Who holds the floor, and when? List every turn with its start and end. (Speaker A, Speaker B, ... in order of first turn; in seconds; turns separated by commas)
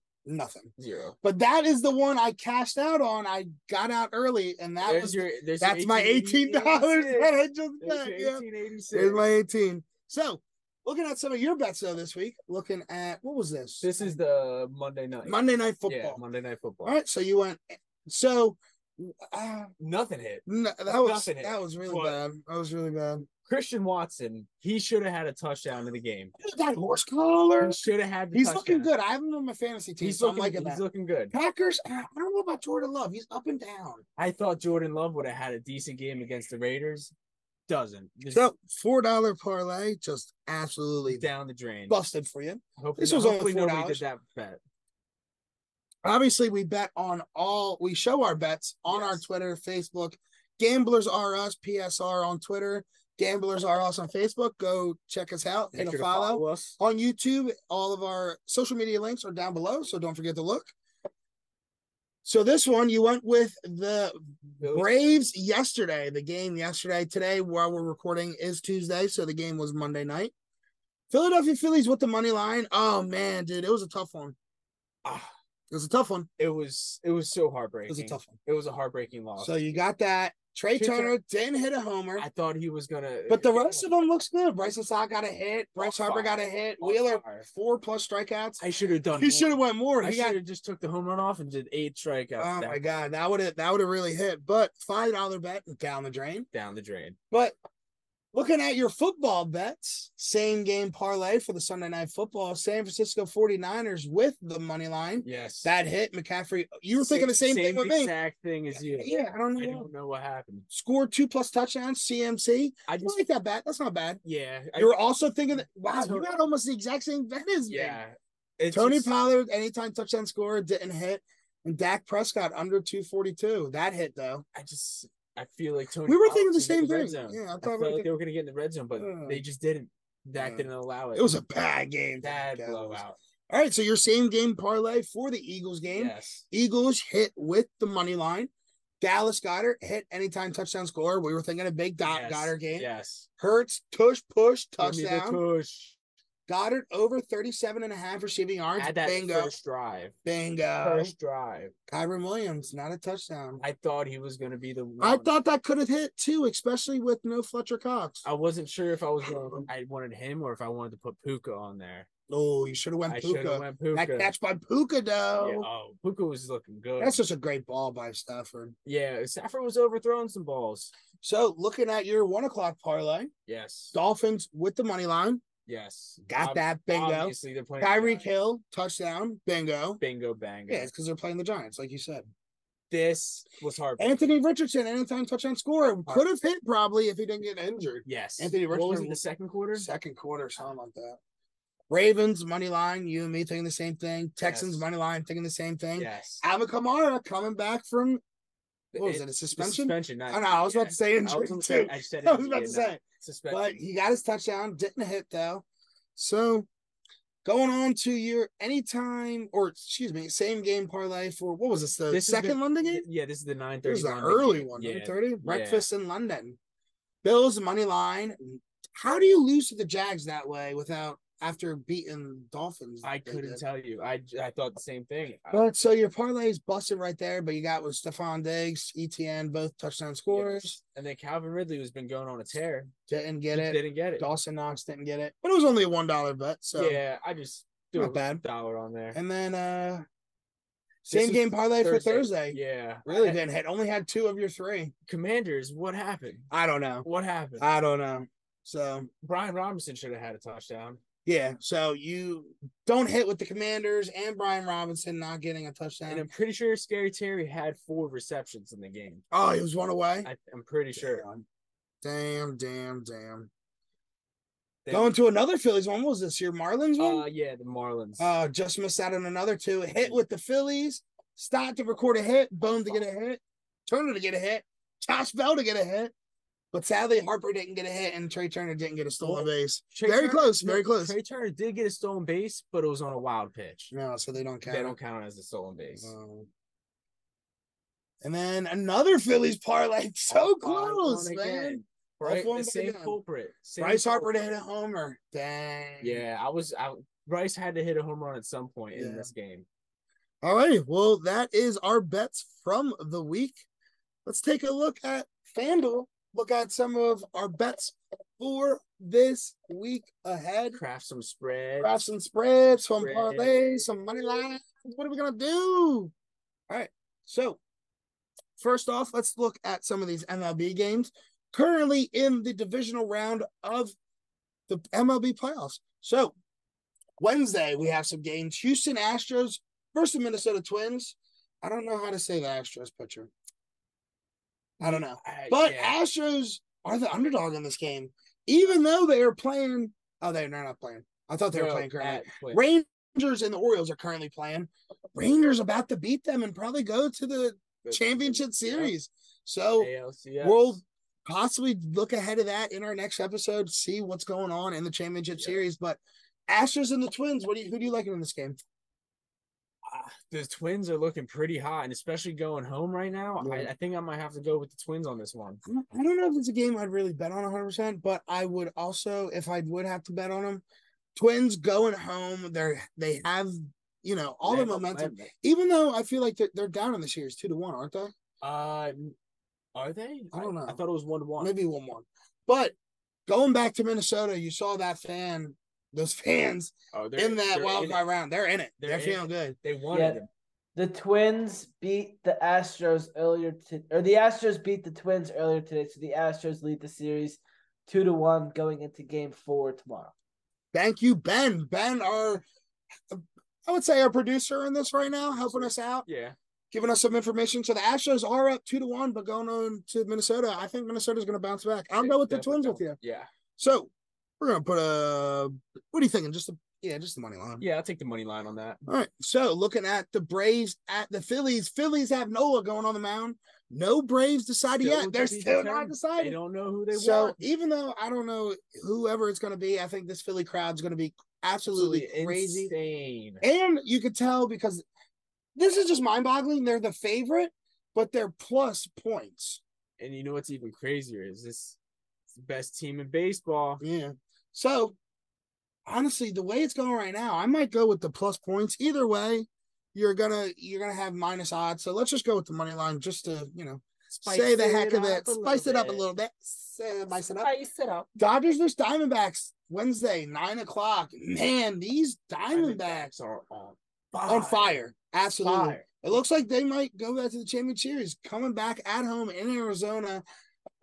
Speaker A: 0.2-0.7, Speaker B: 0.8-1.1, Speaker A: 1.2-14.2, Speaker B: 4.8-9.2, Speaker B: 13.8-17.0, Speaker A: 15.2-16.2, Speaker A: 16.8-19.7, Speaker B: 19.8-22.2, Speaker A: 20.4-23.3, Speaker B: 23.4-26.3, Speaker A: 26.4-27.8, Speaker B: 27.6-28.9, Speaker A: 28.3-30.8, Speaker B: 30.0-31.3, Speaker A: 31.3-34.0, Speaker B: 34.2-37.1, Speaker B: 37.7-38.4, Speaker A: 38.3-41.2, Speaker B: 41.1-42.0, Speaker A: 41.9-44.0, Speaker B: 42.8-44.6, Speaker A: 46.0-60.7, Speaker B: 48.9-49.2, Speaker B: 55.7-56.8, Speaker A: 62.2-70.3, Speaker B: 64.6-65.3, Speaker A: 71.1-74.3, Speaker B: 75.0-75.3, Speaker A: 75.7-76.3, Speaker B: 76.4-79.6, Speaker A: 77.9-78.3, Speaker A: 79.4-82.2, Speaker B: 80.7-81.1, Speaker B: 82.2-83.9, Speaker A: 83.3-88.6, Speaker B: 85.8-87.5, Speaker B: 88.6-92.8, Speaker A: 89.2-90.4, Speaker A: 92.4-96.5, Speaker B: 96.5-97.2, Speaker A: 98.3-108.1, Speaker B: 105.2-105.7, Speaker B: 107.0-110.7, Speaker A: 109.0-109.9, Speaker A: 110.7-114.2, Speaker B: 112.9-113.2, Speaker B: 114.2-114.9, Speaker A: 114.8-118.0, Speaker B: 115.9-116.3, Speaker B: 117.7-119.1, Speaker A: 118.7-124.4, Speaker B: 124.5-131.4, Speaker A: 126.0-128.1, Speaker A: 129.0-129.4, Speaker A: 130.3-138.5, Speaker B: 132.2-133.2, Speaker B: 135.9-136.4, Speaker A: 139.0-142.9, Speaker B: 142.0-143.3, Speaker A: 143.4-145.4, Speaker B: 144.8-145.9, Speaker A: 146.5-149.5, Speaker B: 148.8-150.1, Speaker A: 150.2-151.1, Speaker B: 150.8-151.7, Speaker A: 151.9-153.6, Speaker B: 153.6-155.3, Speaker A: 155.0-158.2, Speaker B: 158.2-162.1, Speaker A: 162.3-165.7, Speaker B: 163.1-164.3, Speaker B: 165.4-167.2, Speaker A: 167.0-168.7, Speaker B: 168.8-170.9, Speaker A: 171.2-173.3, Speaker B: 173.4-173.9, Speaker A: 173.9-175.4, Speaker B: 175.7-178.3, Speaker A: 176.3-180.0, Speaker B: 180.0-180.9, Speaker A: 180.7-182.3, Speaker B: 182.9-184.4, Speaker A: 184.0-189.2, Speaker B: 188.1-189.9, Speaker A: 189.7-191.2, Speaker A: 191.9-198.2, Speaker B: 194.4-194.8, Speaker B: 195.9-196.4, Speaker B: 198.9-203.8, Speaker A: 199.0-205.6, Speaker A: 206.2-206.7, Speaker A: 207.4-213.0, Speaker B: 212.1-215.8, Speaker A: 213.8-216.6, Speaker A: 217.2-223.6, Speaker B: 223.0-225.7, Speaker A: 225.5-230.8, Speaker B: 230.3-232.9, Speaker A: 233.1-237.0, Speaker B: 233.5-234.3, Speaker B: 236.8-239.2, Speaker A: 237.9-238.4, Speaker A: 239.1-240.1, Speaker A: 241.0-244.9, Speaker B: 241.1-243.4, Speaker B: 245.1-246.5, Speaker A: 246.5-247.1, Speaker B: 247.0-247.7, Speaker A: 247.6-249.1, Speaker B: 249.2-251.0, Speaker A: 251.2-256.3, Speaker B: 256.1-259.2, Speaker A: 259.3-260.3, Speaker B: 260.2-261.2, Speaker A: 261.0-261.4, Speaker A: 262.0-263.5, Speaker B: 264.8-265.1, Speaker A: 264.9-267.2, Speaker B: 267.0-268.3, Speaker A: 268.2-276.1, Speaker A: 276.7-281.1, Speaker B: 279.2-283.9, Speaker A: 283.9-284.9, Speaker B: 284.7-286.1, Speaker A: 286.0-286.5, Speaker A: 288.2-293.2, Speaker B: 290.3-294.5, Speaker A: 293.8-296.2, Speaker B: 296.0-299.6, Speaker A: 298.9-299.3, Speaker A: 300.4-303.6, Speaker A: 304.2-310.8, Speaker B: 310.7-311.9, Speaker A: 311.8-316.1, Speaker B: 313.0-313.8, Speaker A: 316.7-317.6, Speaker A: 318.6-323.9, Speaker A: 324.7-326.3, Speaker A: 327.2-333.3, Speaker A: 334.8-349.9, Speaker B: 334.8-336.0, Speaker B: 341.5-342.6, Speaker B: 347.8-348.9, Speaker B: 349.8-350.6, Speaker A: 350.4-358.6, Speaker B: 359.9-365.6, Speaker A: 363.4-363.7, Speaker A: 365.6-370.6, Speaker A: 371.1-378.1, Speaker B: 374.4-375.3, Speaker B: 378.4-379.1, Speaker B: 379.7-381.5, Speaker A: 380.3-380.8, Speaker A: 381.4-382.7, Speaker A: 383.3-389.6, Speaker B: 386.9-388.0, Speaker B: 388.8-390.3, Speaker C: 389.9-390.2, Speaker C: 390.7-400.1, Speaker A: 400.7-402.4, Speaker A: 403.1-406.1, Speaker B: 405.3-406.4, Speaker A: 406.7-413.0, Speaker B: 411.9-413.3, Speaker A: 413.6-417.6, Speaker B: 417.6-418.8, Speaker A: 418.9-426.4, Speaker B: 424.8-427.4, Speaker A: 426.9-432.7, Speaker B: 431.7-433.4, Speaker A: 433.4-434.8, Speaker A: 435.6-439.6, Speaker B: 440.0-441.8, Speaker B: 442.3-443.8, Speaker A: 443.8-444.9, Speaker A: 445.9-457.5, Speaker B: 454.1-456.1, Speaker B: 457.4-458.1, Speaker A: 458.1-463.1, Speaker B: 462.5-464.8, Speaker A: 464.3-470.2, Speaker B: 465.4-466.0